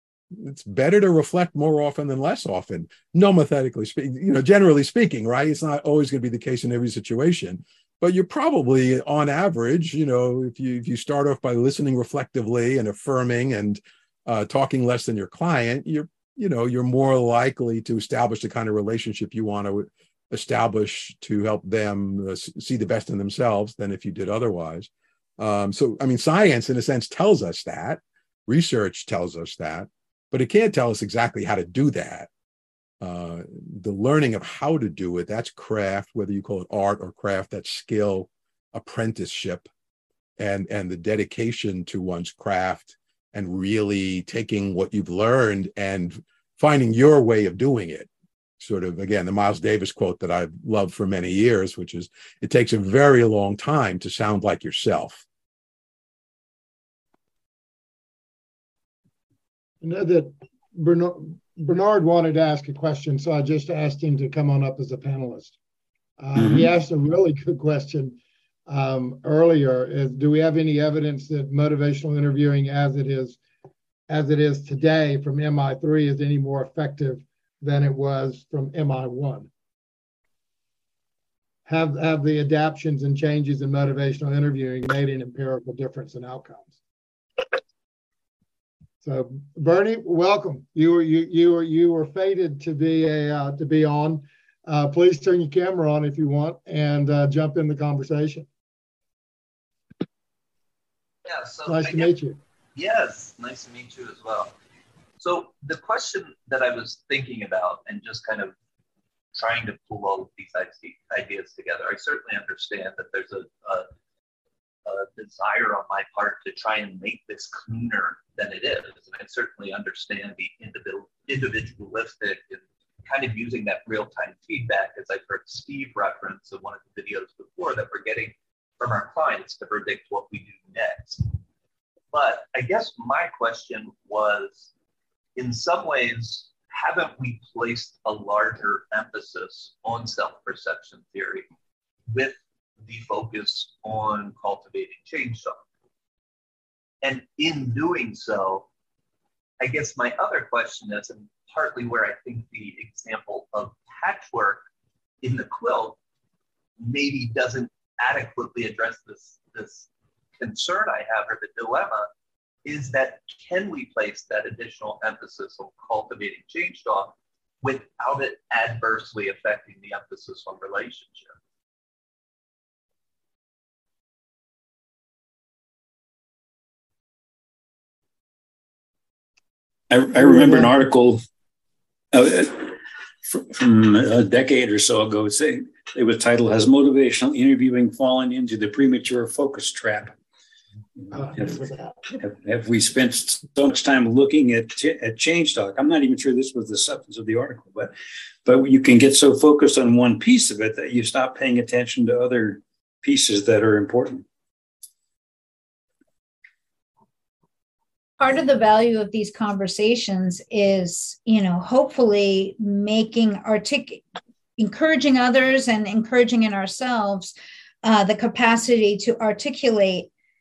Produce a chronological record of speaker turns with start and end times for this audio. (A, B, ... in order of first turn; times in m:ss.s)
0:00.3-0:32.3 A
0:33.0-0:39.7 A
0:40.4-0:48.1 A
0:48.6-0:55.2 A
0:59.8-1:05.6 B
1:06.2-1:08.2 B
1:06.4-1:06.7 C
1:08.7-1:13.4 B
1:14.1-1:19.5 B
1:21.7-1:26.8 B
1:29.0-1:38.5 B
1:41.3-1:42.1 D
1:41.6-1:42.4 B
1:42.8-1:44.5 D
1:45.2-1:48.5 D
1:49.3-1:53.9 D
1:54.9-2:11.3 D
2:12.1-2:14.7 D
2:15.4-2:21.5 D
2:22.1-2:25.6 D
2:27.0-2:28.7 D
2:29.6-2:34.7 D
2:35.2-2:36.0 D
2:36.8-2:42.1 D
2:42.6-2:51.4 D
2:59.9-3:01.2 C
3:00.2-3:00.7 B
3:02.1-3:10.1 C
3:11.0-3:11.6 C
3:11.1-3:12.2 B
3:12.2-3:17.9 C
3:18.4-3:24.2 C
3:28.2-3:34.0 E
3:34.6-3:40.1 E